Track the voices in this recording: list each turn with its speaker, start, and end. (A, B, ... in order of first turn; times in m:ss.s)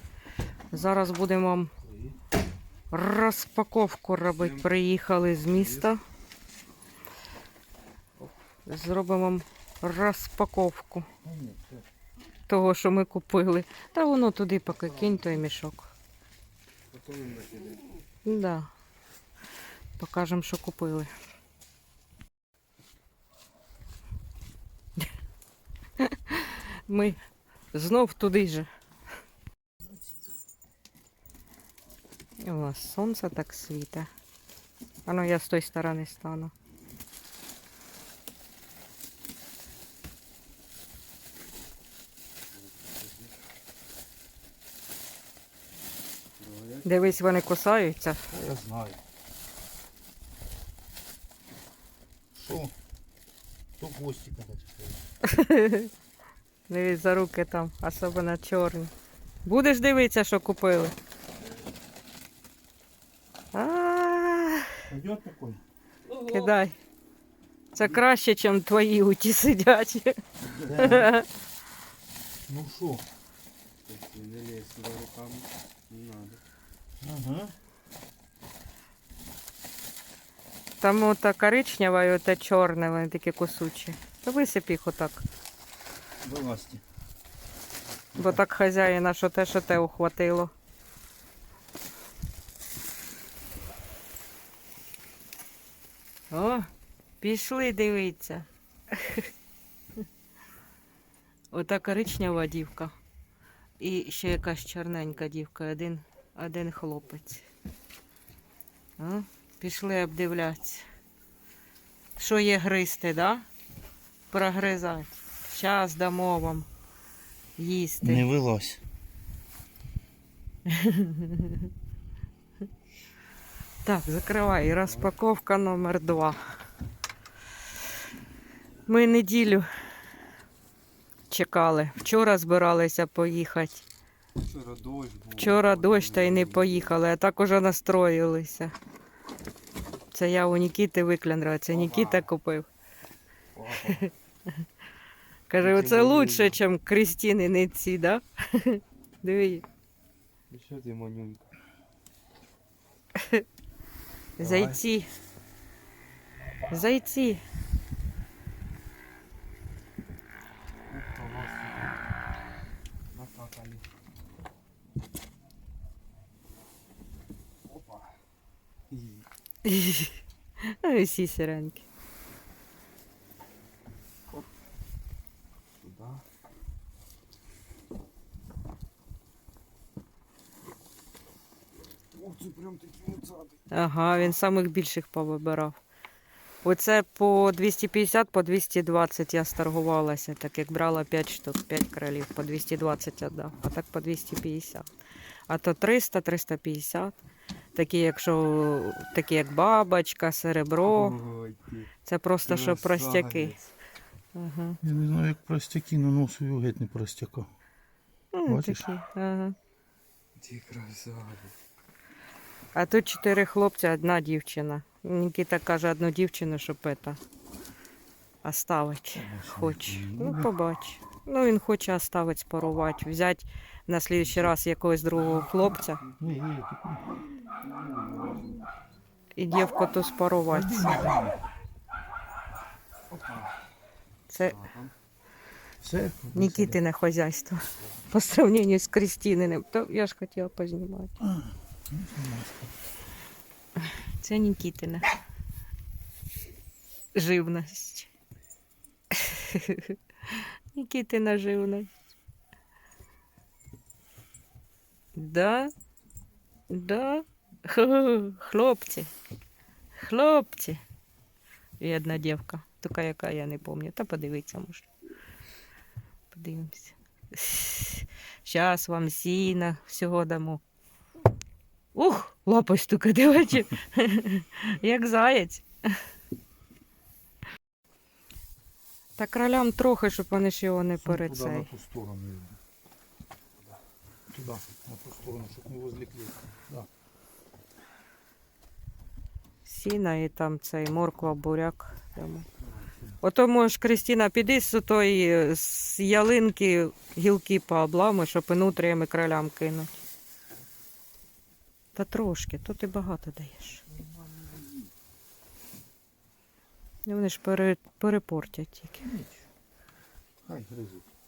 0:00.7-0:01.7 A
0:01.8-0:02.2 B
0:02.9-0:06.0 A
0:04.3-0:04.7 C
0:05.6-0:05.9 C
0:08.2-0:11.1 A
0:11.2-0:11.8 B
0:12.5-0:15.9 A
0:16.9-0:17.8 C
0:18.2-0:18.7 A
0:20.0-0:21.1 A
0:26.0-0:27.2 A
0:27.7-0:28.7 A
0:29.8-0:30.2 B
0:32.4-0:34.1 A
0:35.0-0:36.5 A
0:42.5-0:43.3 C
0:46.4-0:47.2 C
0:46.8-0:48.3 A
0:48.3-0:49.0 B
0:52.3-0:52.7 B
0:53.8-0:55.0 B
0:55.2-0:55.9 A
0:56.7-0:58.9 A
0:59.4-1:00.9 A
1:03.5-1:04.8 A
1:04.9-1:05.6 B
1:06.1-1:06.5 C
1:06.2-1:06.8 A
1:07.7-1:10.2 A
1:10.6-1:11.1 B
1:10.8-1:11.3 A
1:12.5-1:13.0 B
1:13.8-1:16.4 C
1:17.0-1:17.5 B
1:20.8-1:25.2 A
1:26.2-1:26.8 B
1:28.2-1:30.5 A
1:36.3-1:36.7 A
1:37.2-1:39.3 A
1:41.5-1:42.9 A
1:43.8-1:47.5 A
1:49.0-1:50.8 A
1:52.2-1:53.4 A
1:54.3-1:56.7 A
1:57.6-1:58.3 A
1:58.0-1:58.8 B
2:00.7-2:01.7 A
2:03.8-2:06.4 A
2:08.9-2:09.7 A
2:11.3-2:13.8 A
2:14.4-2:17.0 C
2:15.4-2:18.7 A
2:20.1-2:22.7 A
2:21.7-2:22.3 C
2:23.5-2:24.0 C
2:23.8-2:24.5 A
2:25.5-2:29.6 A
2:25.6-2:26.6 C
2:30.5-2:31.5 C
2:33.1-2:33.4 A
2:34.4-2:34.8 C
2:34.4-2:35.1 A
2:36.7-2:37.4 A
2:40.9-2:42.0 C
2:43.1-2:43.9 C
2:47.6-2:48.2 C
2:48.9-2:49.3 C
2:49.6-2:51.8 A
2:55.8-2:56.2 C
3:02.1-3:03.6 C
3:03.7-3:05.8 A
3:06.6-3:14.9 A
3:15.5-3:17.2 A
3:17.7-3:21.2 A
3:20.8-3:21.9 C
3:22.0-3:23.6 A
3:22.4-3:23.7 C
3:24.3-3:24.8 A
3:24.8-3:27.5 B
3:28.3-3:29.6 A
3:28.5-3:28.9 B
3:30.4-3:31.5 C
3:32.7-3:37.2 A
3:38.4-3:46.0 A
3:39.1-3:40.5 B
3:45.1-3:46.3 C
3:46.2-3:47.1 B
3:47.6-3:48.6 C
3:49.4-3:51.1 A
3:50.5-3:51.4 B
3:53.1-3:53.5 C
3:54.3-3:54.6 A
3:54.4-3:54.9 C
3:55.8-3:56.8 B
3:56.3-4:01.1 A
4:01.2-4:02.6 B
4:03.8-4:05.0 A
4:07.1-4:08.1 A
4:09.1-4:11.9 A
4:15.1-4:15.7 A
4:16.7-4:19.1 A
4:20.0-4:20.8 A
4:21.8-4:24.9 A
4:26.3-4:30.6 A
4:31.9-4:35.9 A
4:39.2-4:41.7 A
4:41.0-4:42.6 B
4:44.3-4:46.9 B
4:49.6-4:52.4 A
4:52.6-4:52.9 C
4:53.2-5:00.0 A
5:01.9-5:03.8 A
5:03.8-5:04.9 B
5:07.0-5:09.0 A
5:09.0-5:09.5 B
5:10.4-5:11.1 B